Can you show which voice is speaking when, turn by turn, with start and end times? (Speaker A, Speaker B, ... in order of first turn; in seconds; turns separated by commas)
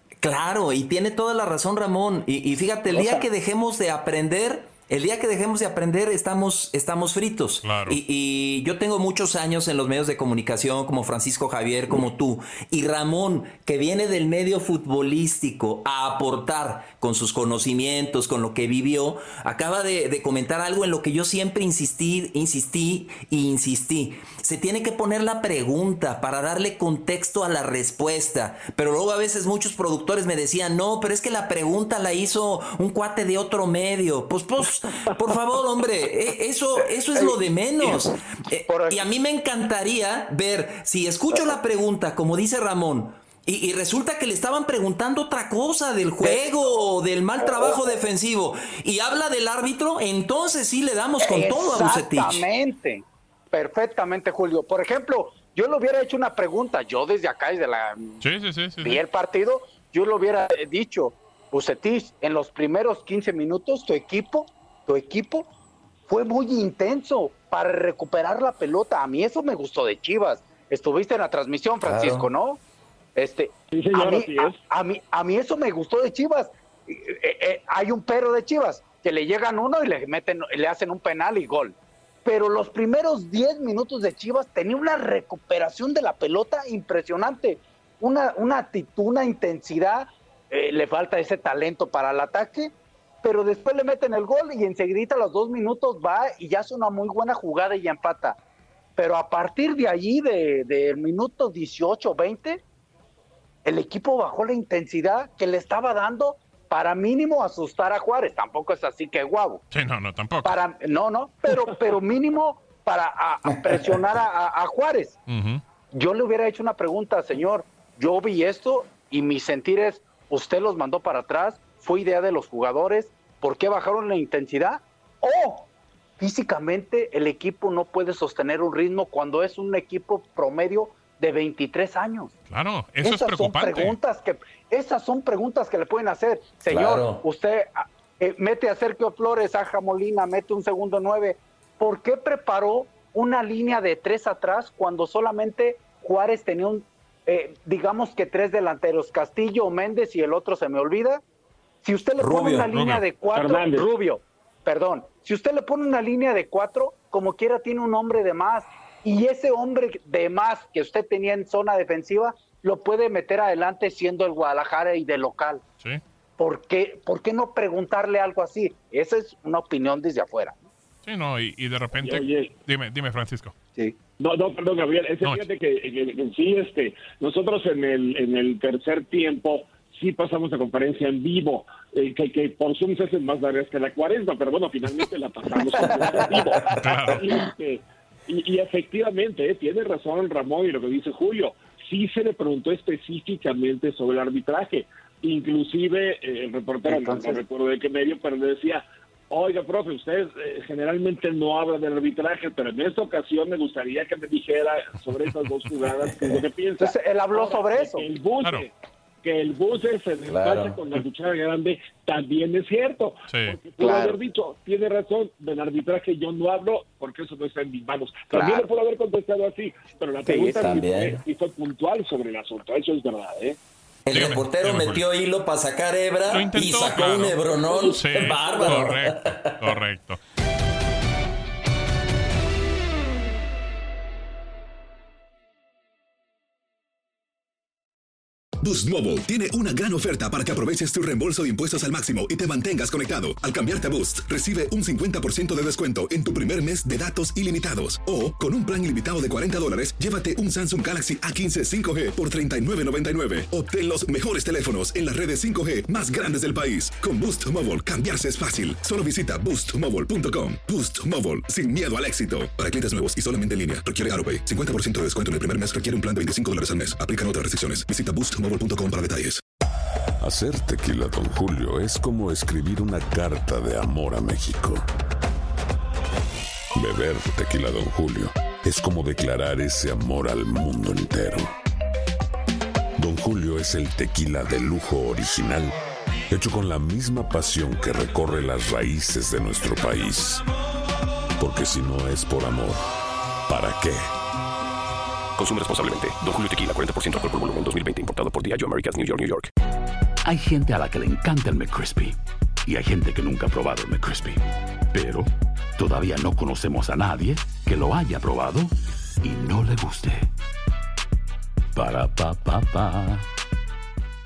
Speaker A: 0.2-52.5, Speaker B: 2.9-3.3, Speaker C: 7.6-8.0, Speaker B: 36.8-38.0, Speaker B: 38.7-39.0, Speaker B: 41.3-41.6, Speaker B: 46.2-46.7, Speaker B: 47.4-47.9, Speaker B: 51.2-58.2, Speaker C: 58.2-59.0, Speaker B: 58.8-65.5, Speaker B: 66.1-72.6, Speaker A: 71.8-72.3, Speaker B: 73.2-98.4, Speaker D: 73.7-74.6, Speaker B: 99.0-102.6, Speaker B: 103.6-109.6, Speaker C: 109.7-110.5, Speaker B: 110.4-115.2, Speaker C: 115.3-115.6, Speaker B: 115.9-125.7, Speaker B: 126.2-132.3, Speaker C: 132.5-133.9, Speaker B: 133.0-151.2, Speaker A: 136.7-137.2, Speaker B: 151.8-165.6, Speaker A: 152.2-152.7, Speaker C: 152.7-153.0, Speaker D: 153.3-153.9, Speaker B: 166.4-170.6, Speaker C: 171.0-173.5, Speaker D: 172.0-172.5, Speaker D: 174.2-208.7, Speaker B: 185.9-186.2, Speaker C: 186.7-187.4, Speaker B: 196.8-197.4, Speaker B: 206.8-208.1, Speaker D: 209.2-223.6, Speaker A: 210.2-210.8, Speaker C: 213.3-213.6, Speaker B: 213.8-214.2, Speaker B: 218.3-218.7, Speaker B: 220.2-220.6, Speaker A: 220.6-221.2, Speaker A: 224.1-229.6, Speaker C: 224.1-225.0, Speaker C: 226.3-230.2, Speaker E: 238.6-269.4, Speaker F: 270.2-274.9, Speaker F: 276.7-281.5, Speaker F: 282.9-285.8, Speaker F: 286.3-290.4, Speaker F: 291.4-292.8, Speaker F: 293.5-294.1, Speaker G: 295.4-299.5, Speaker H: 300.2-302.1, Speaker H: 302.6-304.4, Speaker H: 304.9-308.7, Speaker H: 309.2-310.3, Speaker H: 311.8-313.2